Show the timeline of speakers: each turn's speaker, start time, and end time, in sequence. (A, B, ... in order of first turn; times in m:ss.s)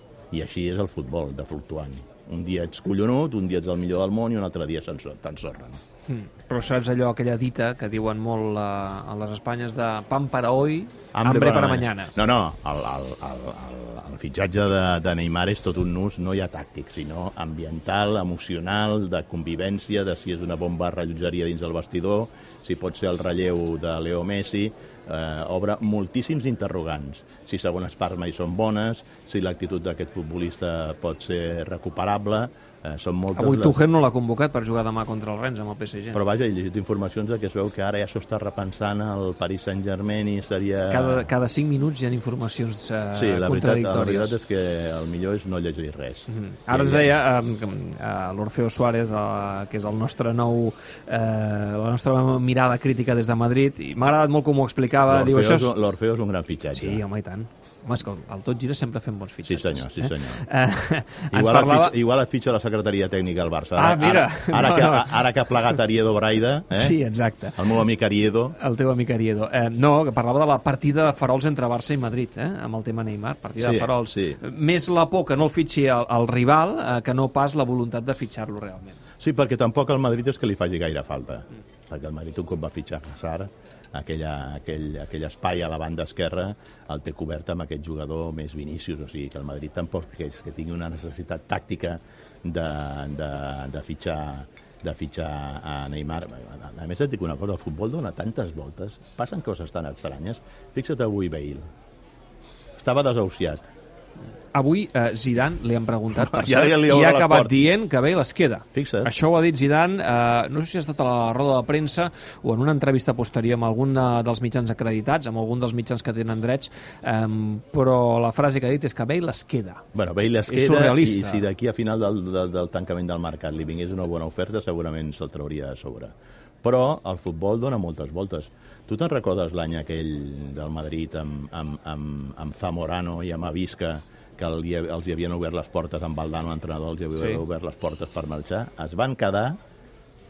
0:00.3-0:05.8 A
0:06.1-0:12.1 B
0:11.1-0:33.8 A
0:33.3-0:36.2 B
0:36.1-0:41.3 A
0:40.9-0:44.4 B
0:43.1-0:47.2 A
0:46.3-0:55.8 B
0:55.1-0:57.0 A
0:56.7-1:02.0 B
0:59.4-1:00.4 A
1:01.3-1:07.0 A
1:03.8-1:05.8 B
1:06.7-1:07.8 B
1:07.6-1:08.6 A
1:08.6-1:19.0 B
1:13.6-1:14.4 A
1:19.2-1:41.6 A
1:42.8-1:43.7 A
1:44.5-1:59.8 B
1:46.1-1:47.7 A
1:48.7-1:49.1 A
1:59.9-2:19.6 A
2:00.5-2:01.5 B
2:17.2-2:17.4 B